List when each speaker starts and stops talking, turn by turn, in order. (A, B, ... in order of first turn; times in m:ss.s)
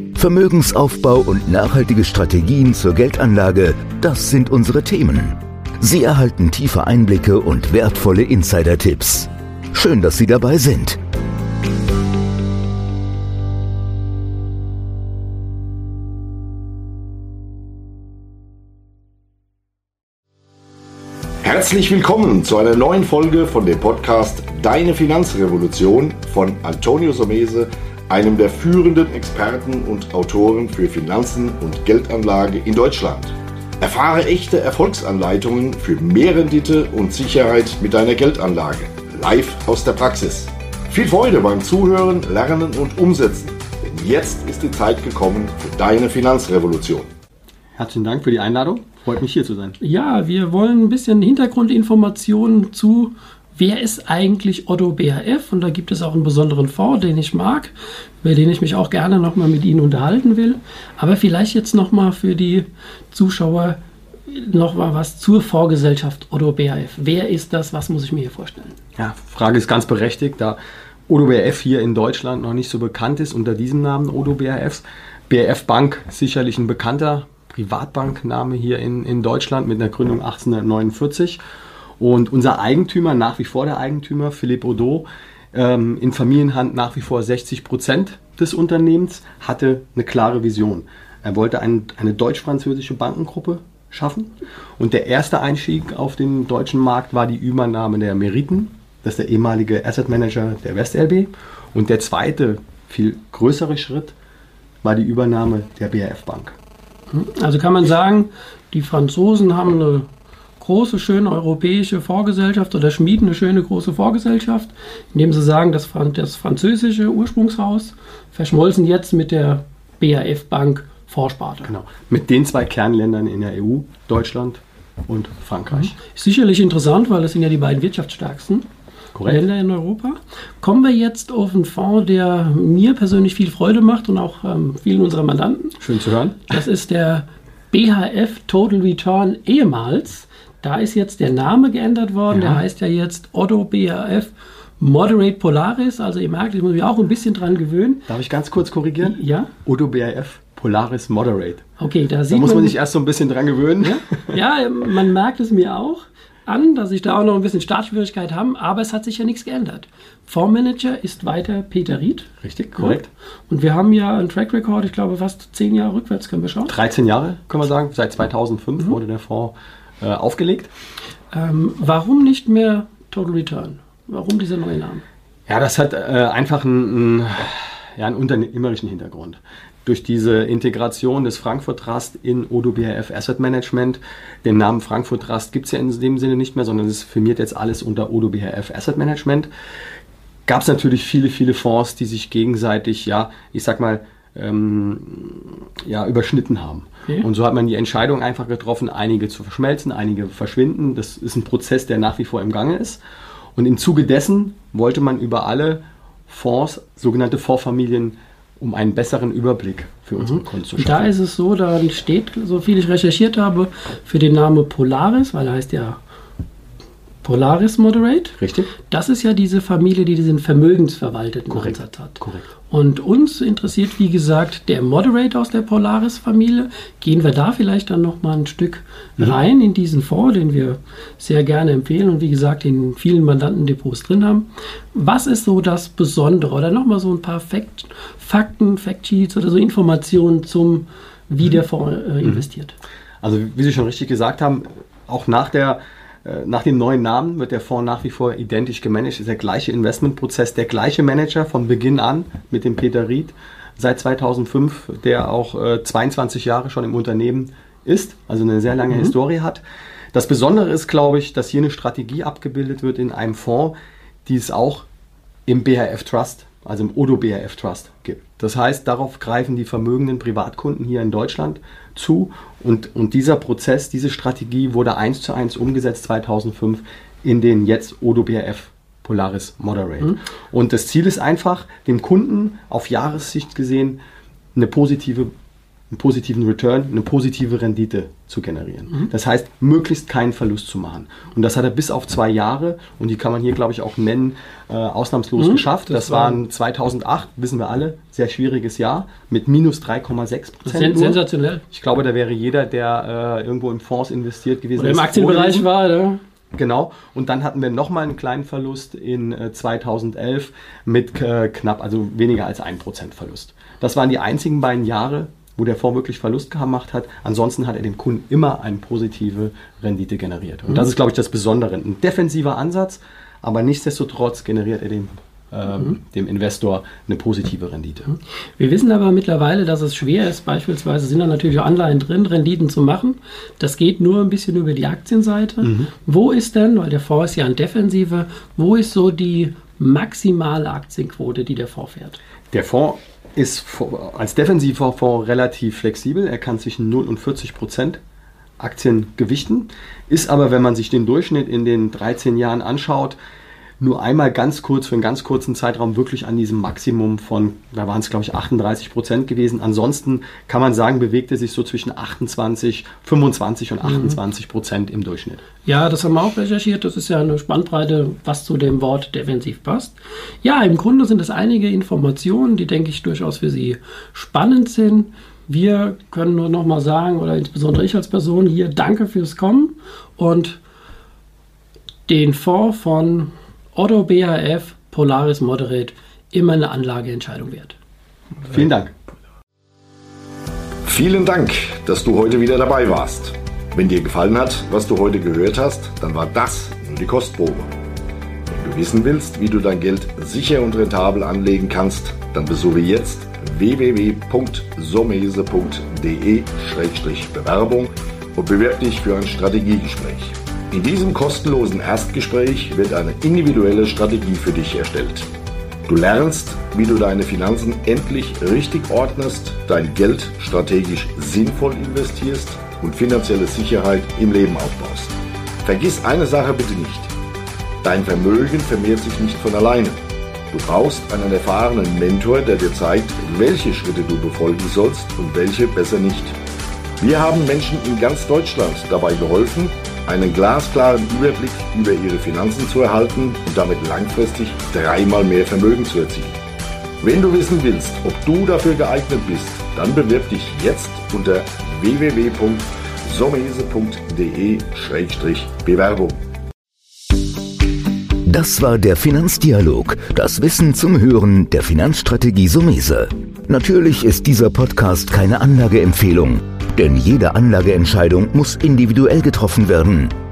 0:00.2-0:11.0 A
0:21.4-0:47.1 B
0:47.8-0:49.8 C
0:49.8-1:08.8 D
1:09.0-1:21.4 C
1:22.0-1:44.1 C
1:44.8-1:46.6 C
1:47.1-1:50.1 D
1:50.6-2:01.7 D
2:01.6-2:05.9 C
2:05.7-2:08.7 D
2:09.1-2:09.4 C
2:09.2-2:15.8 D
2:15.8-2:16.5 C
2:16.5-2:28.1 D
2:22.3-2:22.6 C
2:28.1-2:31.6 C
2:29.0-2:29.5 D
2:31.8-2:32.8 D
2:32.3-2:34.0 C
2:33.8-2:46.8 D
2:42.4-2:43.1 C
2:46.7-2:50.7 C
2:51.3-2:55.0 D
2:55.5-3:09.5 C
3:10.5-3:23.0 C
3:23.5-3:31.1 C
3:30.2-3:36.0 D
3:37.2-4:02.7 D
3:38.4-3:38.7 C
3:41.5-3:42.5 C
4:03.2-4:19.6 C
4:20.1-4:23.8 C
4:24.2-4:24.9 C
4:25.5-4:44.0 C
4:44.6-4:45.3 C
4:45.9-5:05.7 C
4:55.4-4:56.4 D
5:00.6-5:01.6 D
5:04.8-5:06.2 D
5:06.5-5:28.1 C
5:28.1-5:42.2 D
5:35.6-5:35.9 C
5:42.5-5:48.0 C
5:48.6-5:53.2 C
5:53.8-6:05.4 C
6:03.8-6:04.2 D
6:05.6-6:20.6 D
6:22.1-6:27.8 D
6:28.5-6:28.9 C
6:30.8-6:37.7 B
6:38.5-6:55.3 B
6:55.9-7:07.1 B
7:07.8-7:16.4 B
7:17.0-7:26.4 B
7:27.0-7:36.2 B
7:38.3-7:50.1 A